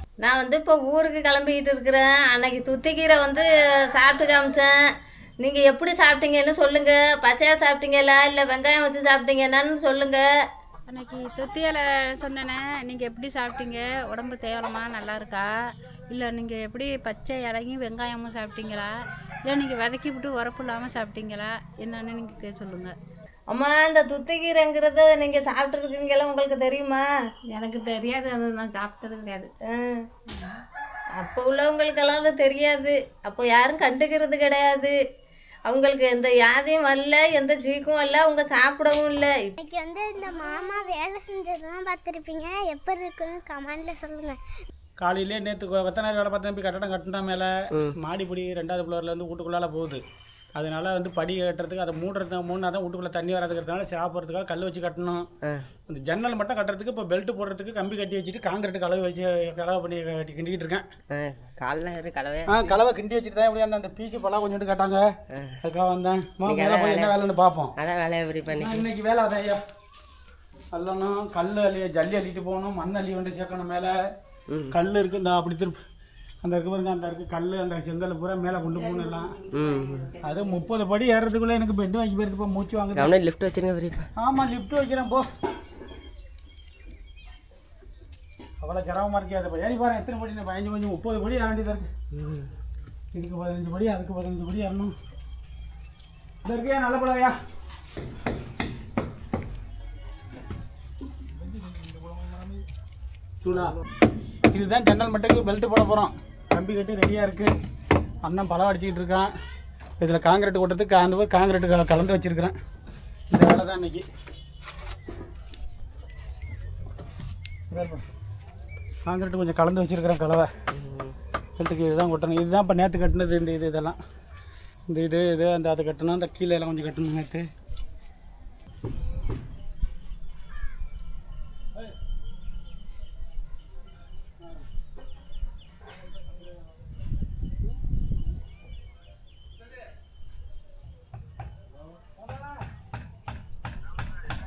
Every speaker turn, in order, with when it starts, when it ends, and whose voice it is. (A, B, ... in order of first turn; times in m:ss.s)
0:00.2-0:04.7 A
0:05.4-0:10.2 A
0:10.9-0:15.4 B
0:16.1-0:18.9 B
0:19.5-0:22.9 B
0:23.5-0:27.0 A
0:27.5-0:29.5 C
0:29.7-0:30.0 A
0:30.3-0:30.6 C
0:31.2-0:34.9 A
0:35.7-0:39.5 A
0:39.6-0:44.4 D
0:45.0-0:50.0 E
0:50.5-0:55.2 E
0:55.9-1:00.8 E
1:01.1-1:02.7 F
1:02.5-1:05.0 E
1:05.6-1:07.7 E
1:06.4-1:07.2 F
1:07.8-1:08.8 F
1:08.4-1:09.6 E
1:10.7-1:13.9 E
1:14.7-1:15.8 E
1:16.4-1:19.4 E
1:19.5-1:20.1 F
1:20.2-1:23.2 E
1:22.9-1:24.1 F
1:24.2-1:25.3 E
1:28.6-1:31.9 E
1:32.1-1:32.5 F
1:33.1-1:34.9 E
1:36.4-1:37.4 E
1:43.4-1:43.8 E
1:44.5-1:47.5 E
1:48.2-1:49.3 E
1:50.0-1:52.5 E
1:53.3-1:54.0 E
1:57.7-1:58.0 E
1:59.0-2:00.5 E
2:00.8-2:01.1 F
2:01.6-2:04.0 E
2:04.9-2:07.4 E
2:22.0-2:22.6 E